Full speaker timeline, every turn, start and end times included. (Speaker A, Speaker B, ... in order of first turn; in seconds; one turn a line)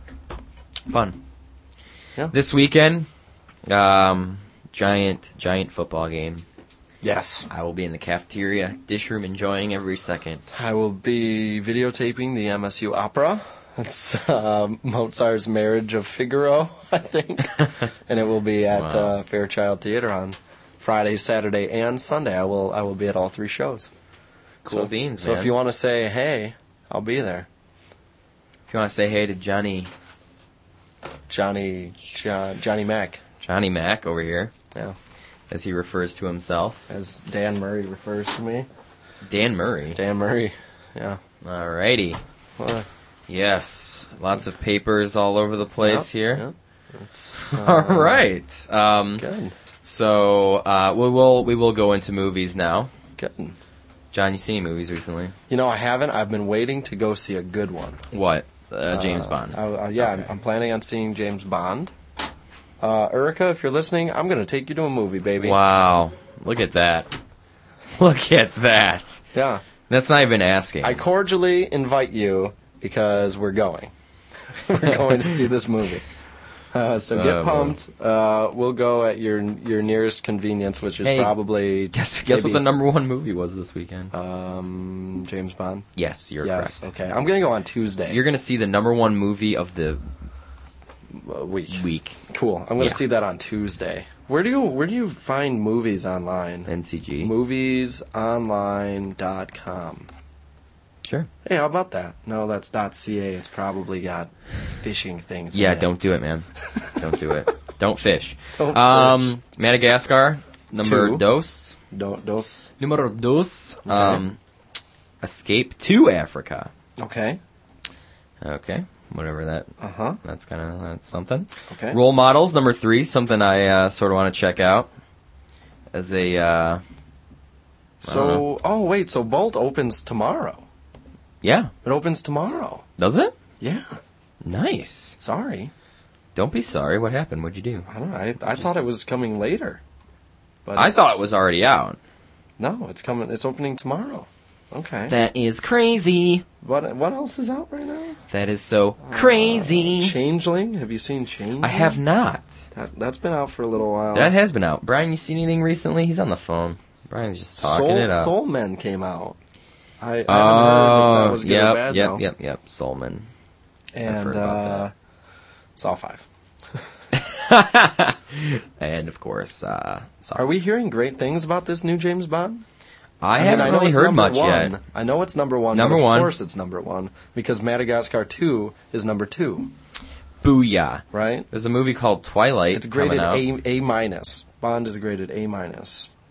Speaker A: 0.9-1.2
Speaker A: 2.3-3.1
Speaker A: 3.7-6.4
Speaker B: 7.0-7.5
Speaker A: 7.5-10.4
Speaker B: 10.5-23.9
Speaker A: 18.7-19.2
Speaker A: 24.6-25.5
Speaker B: 24.6-27.5
Speaker A: 28.7-29.9
Speaker B: 31.3-33.2
Speaker A: 33.4-34.5
Speaker A: 35.5-36.8
Speaker B: 36.9-38.7
Speaker A: 39.2-40.0
Speaker B: 39.9-41.2
Speaker A: 41.4-42.2
Speaker B: 42.6-42.9
Speaker A: 43.3-46.4
Speaker B: 45.8-48.2
Speaker A: 47.3-49.2
Speaker B: 49.2-49.5
Speaker A: 49.8-52.9
Speaker B: 53.2-53.6
Speaker A: 54.1-55.3
Speaker B: 55.5-58.0
Speaker A: 58.1-60.3
Speaker B: 58.9-61.9
Speaker B: 62.8-65.6
Speaker A: 65.4-67.2
Speaker A: 68.0-69.2
Speaker B: 69.3-69.6
Speaker A: 69.9-71.0
Speaker B: 70.8-73.9
Speaker B: 74.7-76.0
Speaker B: 76.7-82.7
Speaker A: 77.1-77.8
Speaker A: 81.0-81.3
Speaker A: 81.9-84.1
Speaker B: 84.1-85.9
Speaker A: 86.0-86.8
Speaker B: 86.4-88.2
Speaker A: 88.1-90.0
Speaker B: 91.1-100.1
Speaker A: 91.7-92.2
Speaker A: 96.7-97.3
Speaker A: 101.0-101.3
Speaker B: 101.4-105.9
Speaker A: 105.5-111.8
Speaker B: 108.6-109.4
Speaker B: 110.8-111.2
Speaker B: 111.9-112.7
Speaker A: 112.8-114.4
Speaker B: 113.8-114.2
Speaker A: 115.2-116.7
Speaker B: 117.0-117.4
Speaker A: 118.4-119.7
Speaker B: 119.8-120.2
Speaker A: 120.2-124.9
Speaker B: 121.7-122.0
Speaker A: 125.9-126.8
Speaker B: 128.0-130.6
Speaker A: 128.0-128.4
Speaker A: 131.4-131.7
Speaker B: 131.8-132.8
Speaker A: 133.0-133.3
Speaker B: 133.6-134.0
Speaker A: 134.4-135.2
Speaker B: 135.2-135.7
Speaker A: 136.3-137.9
Speaker B: 137.9-139.8
Speaker B: 140.6-141.3
Speaker A: 140.8-142.0
Speaker B: 142.6-145.1
Speaker A: 145.1-146.4
Speaker B: 146.6-148.2
Speaker A: 148.3-150.1
Speaker B: 149.0-152.0
Speaker A: 151.6-152.7
Speaker B: 152.7-154.3
Speaker A: 154.1-158.3
Speaker B: 157.6-159.3
Speaker B: 160.0-162.2
Speaker A: 160.3-163.3
Speaker B: 163.9-164.9
Speaker A: 164.0-164.8
Speaker B: 165.8-166.9
Speaker A: 167.1-170.5
Speaker B: 170.3-172.6
Speaker A: 173.2-174.8
Speaker B: 173.3-179.7
Speaker A: 175.7-176.3
Speaker A: 180.4-183.4
Speaker B: 181.1-181.5
Speaker B: 182.7-186.1